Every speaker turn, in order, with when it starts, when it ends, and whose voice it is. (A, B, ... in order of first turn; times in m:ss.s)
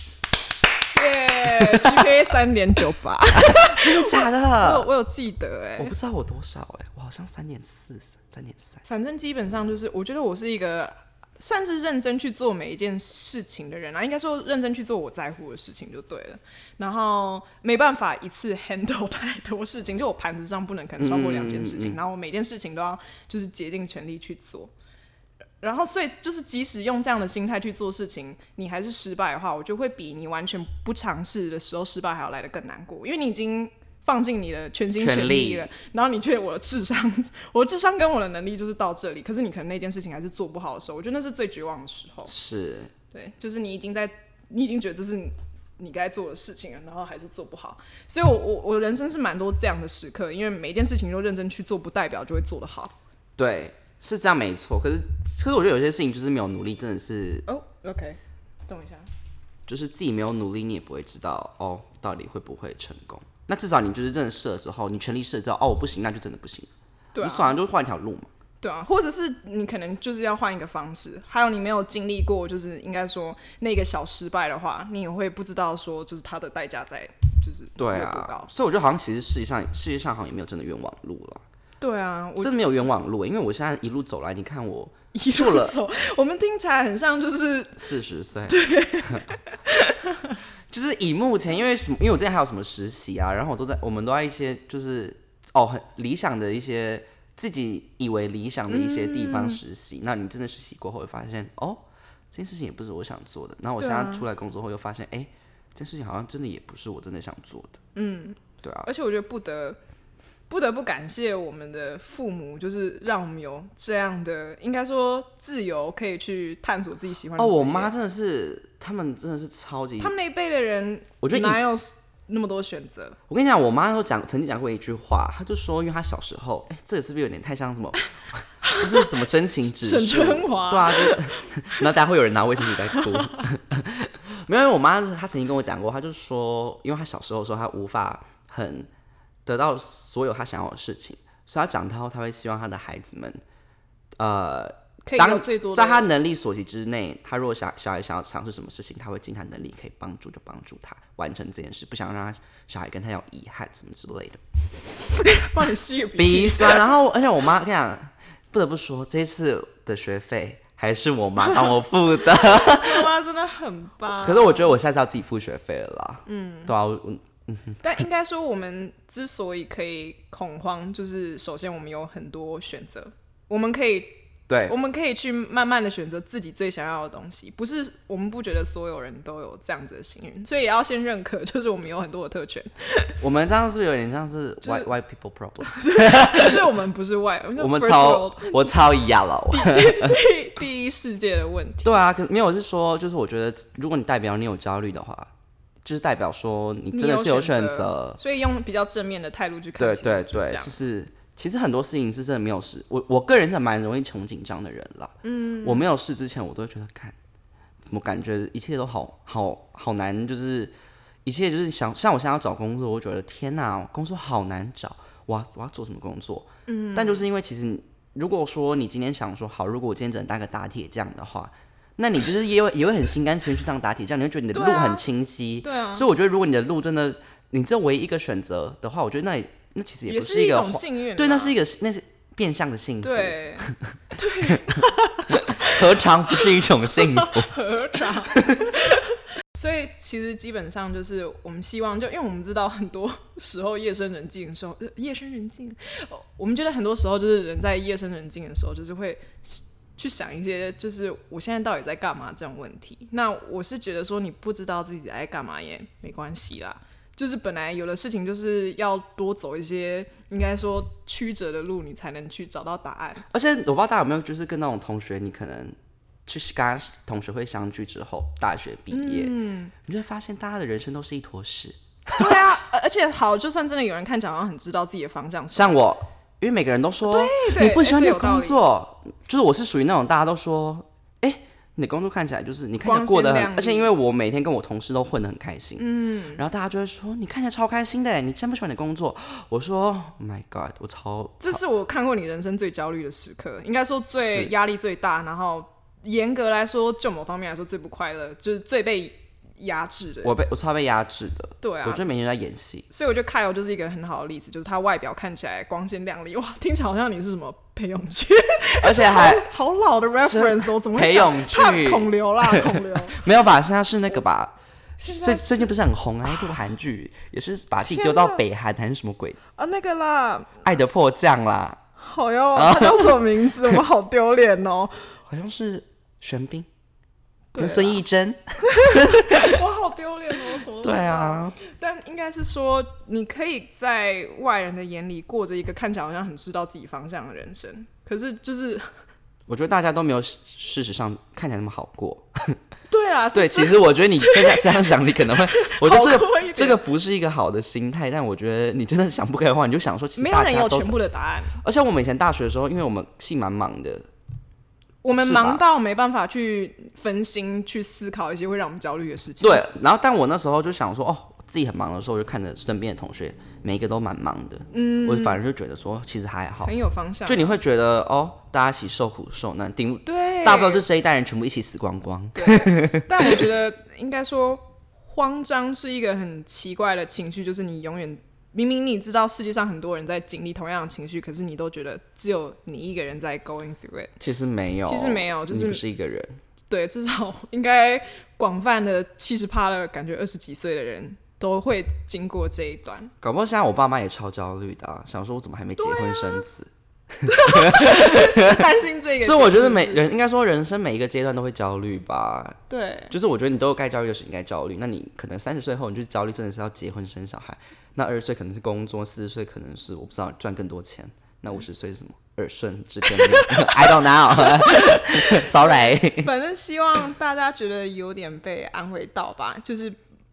0:00.9-0:05.9 A
0:01.6-0:02.1 B
0:03.3-0:04.9 B
0:05.8-0:08.8 B
0:08.9-0:24.7 A
0:21.0-0:22.0 B
0:25.6-0:42.3 A
0:35.0-0:35.7 B
0:42.3-0:42.9 B
0:43.1-0:53.0 A
0:53.4-0:57.4 B
0:57.5-0:59.1 A
0:59.7-1:06.7 B
1:07.1-1:07.6 A
1:07.2-1:08.3 B
1:08.6-1:18.5 A
1:17.8-1:21.4 B
1:21.8-1:22.6 A
1:22.4-1:25.8 B
1:25.1-1:27.9 A
1:27.8-1:29.2 B
1:28.5-1:30.4 A
1:30.7-1:47.8 B
1:38.7-1:39.6 A
1:43.8-1:44.2 A
1:48.0-1:49.8 A
1:48.6-1:48.9 B
1:50.5-1:57.9 A
1:57.4-2:00.2 B
2:00.0-2:03.2 A
2:01.2-2:01.6 B
2:03.3-2:18.9 B
2:08.6-2:09.2 A
2:09.7-2:11.9 A
2:12.9-2:13.5 A
2:19.5-2:23.4 B
2:24.2-2:34.4 B
2:25.1-2:26.1 A
2:35.2-2:36.9 A
2:36.2-2:43.1 B
2:42.4-2:44.8 A
2:44.1-2:47.9 B
2:46.3-2:46.8 A
2:47.8-3:03.2 A
2:54.5-2:54.8 B
3:03.2-3:06.7 B
3:04.6-3:04.9 A
3:05.6-3:08.8 A
3:07.6-3:10.2 B
3:09.5-3:11.9 A
3:11.8-3:15.3 B
3:15.8-3:18.2 B
3:16.9-3:20.8 A
3:19.8-3:27.2 B
3:25.2-3:25.9 A
3:27.8-3:30.7 B
3:31.2-3:53.9 B
3:36.7-3:37.3 A
3:44.5-3:45.0 A
3:45.6-3:46.1 A
3:50.1-3:51.6 A
3:53.0-4:23.2 A
3:55.3-3:59.0 B
4:23.3-4:32.5 B
4:28.9-4:29.7 A
4:32.2-4:35.8 A
4:35.5-4:45.8 B
4:37.0-4:38.6 A
4:42.8-4:43.9 A
4:45.8-4:46.4 A
4:46.4-4:51.6 B
4:51.4-5:00.3 A
4:54.2-4:54.5 B
5:00.2-5:02.9 B
5:01.6-5:02.0 A
5:02.9-5:13.2 A
5:08.8-5:09.5 B
5:10.2-5:19.4 B
5:15.0-5:15.8 A
5:17.8-5:18.4 A
5:19.6-5:20.5 A
5:20.6-5:21.8 B
5:22.0-5:25.1 A
5:22.5-5:23.2 B
5:25.3-5:26.7 B
5:27.5-5:28.0 A
5:27.6-5:29.6 B
5:28.7-5:38.9 A
5:30.8-5:31.6 B
5:39.5-5:42.6 B
5:42.9-5:44.7 A
5:43.3-5:51.0 B
5:45.3-5:46.8 A
5:50.2-5:51.6 A
5:51.6-5:54.1 B
5:55.0-5:59.6 A
5:55.2-5:55.6 B
5:59.4-6:06.7 B
6:04.7-6:05.4 A
6:06.6-6:07.6 A
6:07.3-6:13.4 B
6:10.1-6:10.8 A
6:12.4-6:24.1 A
6:24.2-6:26.4 B
6:24.9-6:25.8 A
6:26.7-6:33.1 A
6:33.2-6:42.6 B
6:35.8-6:36.4 A
6:37.2-6:40.1 A
6:42.7-6:43.1 A
6:43.1-6:56.3 B
6:53.2-7:00.0 A